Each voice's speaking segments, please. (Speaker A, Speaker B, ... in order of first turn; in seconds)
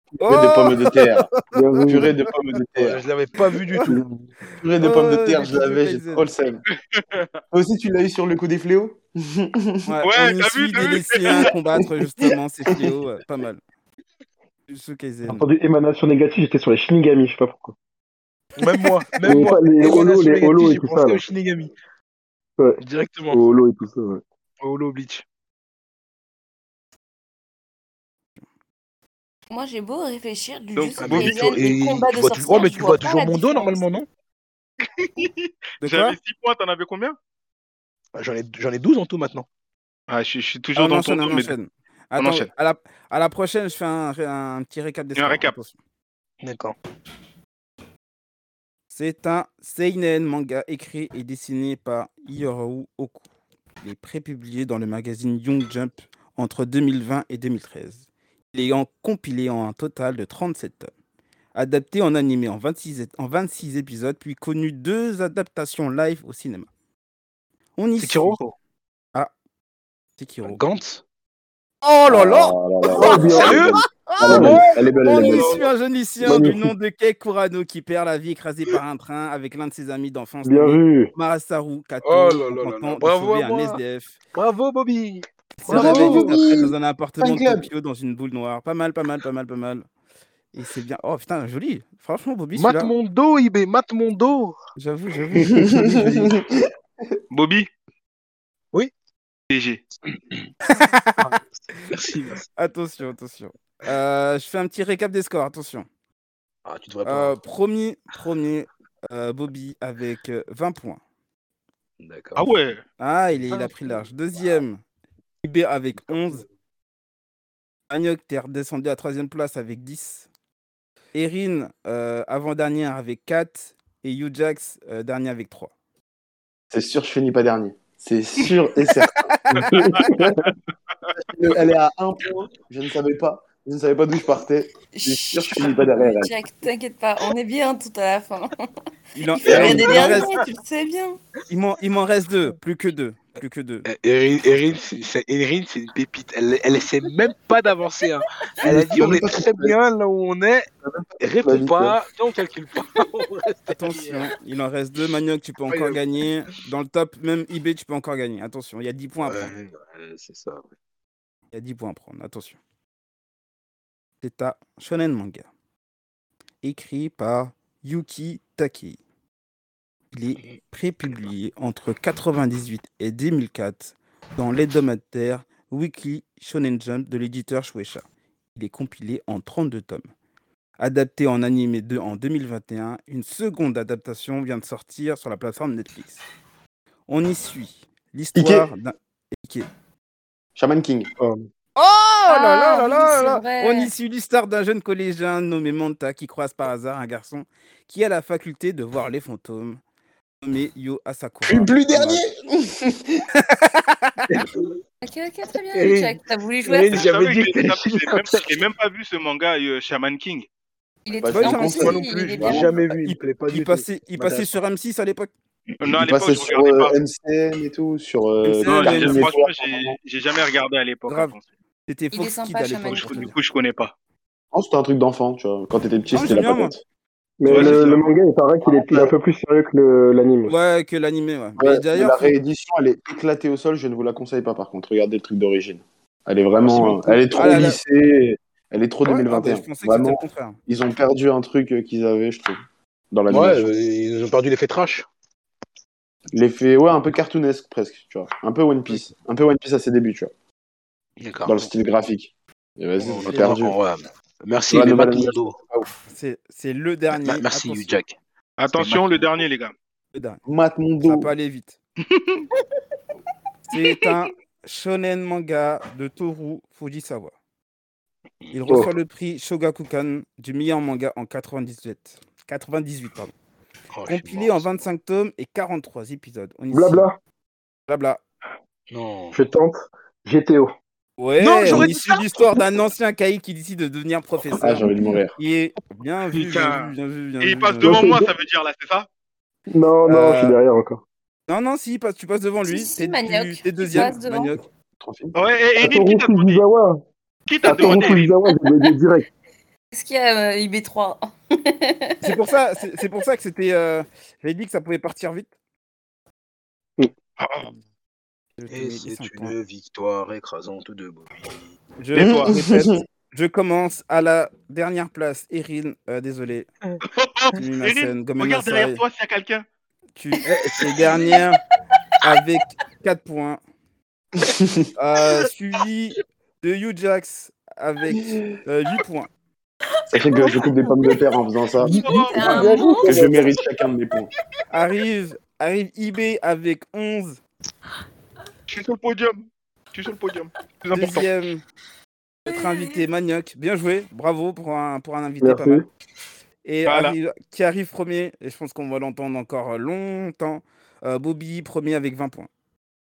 Speaker A: 0.2-1.8, 4.8-6.3, 9.9-13.6, 14.7-15.5, 35.8-36.2, 40.8-45.8, 48.9-53.2, 53.8-60.9, 61.5-66.7, 67.8-68.4, 70.2-70.6, 71.8-84.1, 85.6-89.9, 90.5-92.9, 94.8-96.3, 100.7-101.3, 102.6-105.9, 107.0-111.0, 113.0-114.8, 115.4-116.5, 117.9-120.3, 121.1-125.7, 129.2-129.7, 139.2-140.3, 141.5-143.9, 153.7-159.5, 161.5-162.6, 164.2-165.5, 166.6-169.0, 170.1-178.0, 178.6-180.1, 180.8-186.2, 187.1-189.7, 191.8-199.8, 200.4-202.2, 203.3-204.4, 211.3-211.9, 213.0-215.3, 218.4-219.3, 221.1-221.3, 221.9-223.3, 226.1-226.7, 230.5-232.3, 237.3-237.8, 239.0-240.6, 256.1-258.0, 260.1-260.4, 261.0-261.8, 263.7-267.3, 268.5-273.3, 274.1-277.1, 277.9-278.2, 281.2-288.2, 290.1-290.6, 291.5-294.6, 302.2-305.5, 308.6-309.6, 312.0-316.7, 317.6-319.0, 320.2-321.6, 322.2-323.6, 325.0-329.3, 334.7-337.4, 340.9-341.6, 342.4-345.9, 346.6-352.5
Speaker B: 0.2-1.3, 1.9-3.0, 4.5-6.6, 7.5-9.9, 11.8-12.9, 72.1-75.7, 76.2-76.6, 85.7-87.7, 95.5-96.7, 126.7-130.5, 131.3-136.3, 139.6-140.1, 148.6-149.8, 150.8-152.0, 188.3-188.7, 190.6-191.1, 201.5-203.2, 211.2-212.8, 215.9-220.0, 224.5-226.8, 228.7-229.1, 231.6-243.7, 246.3-250.3, 251.5-253.8, 254.7-255.9, 260.5-261.3, 284.6-285.4, 295.0-295.4, 312.2-313.0, 324.4-324.9, 328.2-328.4, 330.1-334.3
Speaker C: 1.5-2.1, 3.9-4.3, 15.3-17.8, 19.2-21.2, 22.6-24.2, 72.9-73.7, 74.2-74.7, 76.2-76.7, 80.4-81.1, 129.6-130.4, 227.4-230.5, 237.4-237.7, 268.7-268.9, 276.7-277.2, 279.3-280.8, 287.9-288.2, 289.7-291.0, 295.8-297.0, 297.6-299.3, 332.4-333.4, 345.4-345.9
Speaker D: 2.8-4.0, 18.6-21.7, 22.8-23.4, 24.6-25.2, 31.0-34.1, 38.2-39.5, 46.4-46.8, 68.0-68.5, 70.4-71.0, 73.4-73.7, 74.3-75.7, 82.0-83.8, 84.3-86.4, 92.5-94.6, 101.2-102.5, 106.7-107.4, 112.0-112.5, 113.5-114.0, 139.5-140.4, 143.9-150.7, 151.2-154.3, 155.7-156.0, 159.3-160.7, 205.7-208.4, 211.8-214.5, 243.3-245.1, 251.2-251.7, 253.0-255.6, 257.1-258.2, 258.7-259.1, 273.9-274.7, 278.9-279.4, 281.4-282.7, 286.3-286.9, 308.7-311.7, 320.4-321.3
Speaker E: 6.9-7.3, 10.1-11.5, 30.8-31.4, 35.0-37.2, 40.1-41.5, 42.2-42.5, 45.2-45.5, 97.3-97.7, 99.5-99.8, 112.4-112.8, 206.9-210.5, 215.8-217.0, 218.7-221.4, 223.0-223.9, 227.4-228.1, 258.6-259.7, 262.1-262.5, 287.4-289.1, 295.4-296.6, 297.5-298.3, 307.4-307.7, 312.1-312.5, 317.1-319.7, 331.9-332.6, 338.7-341.3, 346.9-347.1
Speaker F: 29.5-34.0, 134.9-138.5, 139.3-141.2, 192.3-193.9, 205.0-207.1, 211.1-212.7, 222.1-223.3, 292.6-294.6, 299.9-302.4, 321.0-321.4, 330.2-331.2, 331.8-333.5, 342.5-342.9